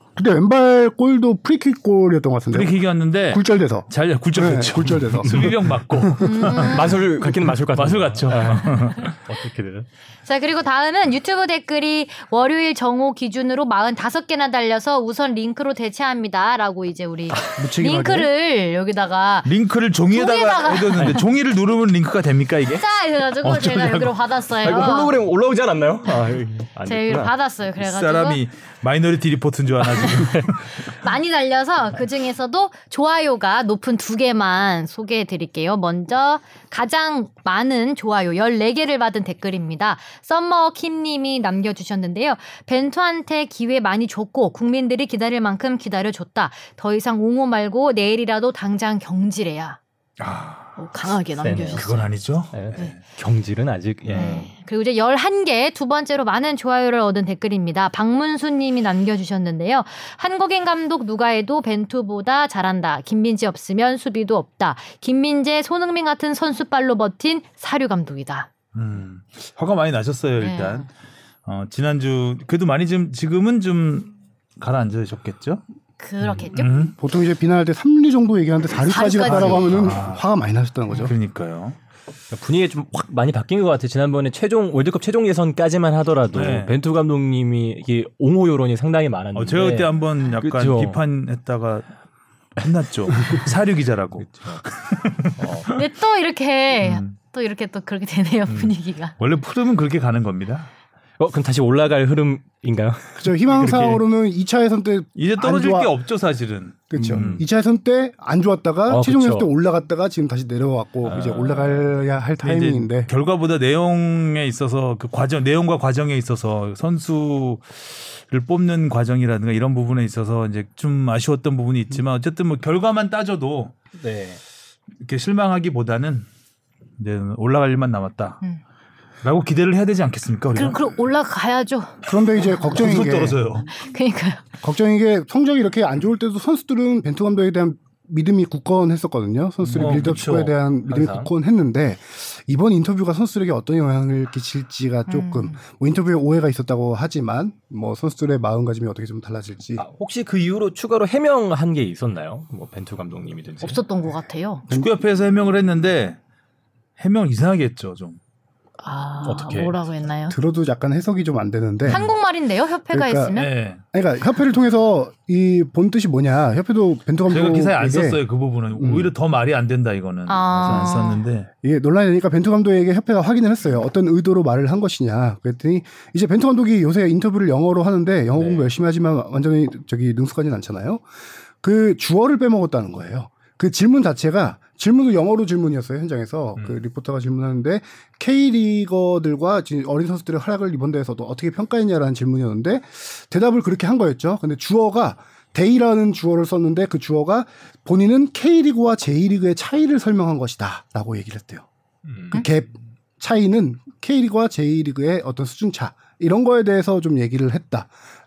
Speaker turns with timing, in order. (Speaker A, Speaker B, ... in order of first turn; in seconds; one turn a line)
Speaker A: 0.2-2.8
Speaker B: 2.5-7.0
Speaker A: 3.3-6.5
Speaker C: 6.2-7.0
Speaker D: 6.5-9.9
Speaker B: 7.7-9.2
Speaker C: 8.7-9.1
Speaker C: 10.3-19.5
Speaker A: 17.6-18.3
Speaker B: 19.4-22.9
Speaker C: 20.1-21.2
Speaker D: 21.0-21.2
Speaker C: 22.7-25.2
Speaker B: 23.4-24.2
Speaker D: 24.6-27.3
Speaker C: 26.9-28.4
Speaker B: 27.8-30.7
Speaker D: 30.2-30.5
Speaker C: 30.8-49.8
Speaker B: 50.2-50.8
Speaker C: 50.8-52.1
Speaker D: 51.4-52.0
Speaker B: 51.8-53.0
Speaker D: 52.5-54.5
Speaker B: 54.0-54.4
Speaker C: 54.1-68.5
Speaker B: 68.7-70.9
Speaker C: 70.4-70.9
Speaker B: 71.5-75.6
Speaker C: 76.0-76.9
Speaker B: 76.2-77.0
Speaker A: 76.8-81.2
Speaker C: 78.8-79.7
Speaker B: 79.2-80.2
Speaker B: 80.9-81.8
Speaker D: 82.3-91.0
Speaker B: 86.3-86.8
Speaker B: 89.3-91.9
Speaker B: 92.6-95.8
Speaker D: 93.2-93.5
Speaker D: 94.3-94.6
Speaker D: 95.4-95.7
Speaker C: 95.7-99.2
Speaker B: 96.8-97.1
Speaker B: 98.5-100.7
Speaker D: 101.2-103.3
Speaker A: 103.2-105.9
Speaker B: 103.5-104.0
Speaker B: 105.2-107.4
Speaker A: 106.9-113.1
Speaker D: 107.0-107.5
Speaker D: 108.9-109.5
Speaker D: 111.0-111.9
Speaker B: 112.4-123.7
Speaker D: 124.0-124.4
Speaker B: 125.0-126.3
Speaker B: 127.0-128.4
Speaker B: 129.2-130.8
Speaker C: 130.6-132.8
Speaker A: 132.1-133.6
Speaker B: 132.5-133.7
Speaker C: 133.7-134.4
Speaker A: 134.6-149.8
Speaker B: 139.7-140.5
Speaker D: 139.7-141.3
Speaker C: 145.1-145.6
Speaker D: 149.8-153.8
Speaker C: 153.6-154.7
Speaker B: 154.7-156.2
Speaker B: 157.0-158.2
Speaker C: 158.8-160.4
Speaker D: 159.2-159.8
Speaker A: 160.3-162.1
Speaker C: 161.9-163.5
Speaker A: 162.9-163.4
Speaker B: 163.3-163.8
Speaker A: 163.9-168.2
Speaker B: 167.3-171.5
Speaker A: 168.8-169.1
Speaker C: 170.3-171.2
Speaker A: 171.6-181.0
Speaker D: 178.4-178.7
Speaker A: 181.6-201.7
Speaker D: 202.1-202.3
Speaker A: 202.3-207.9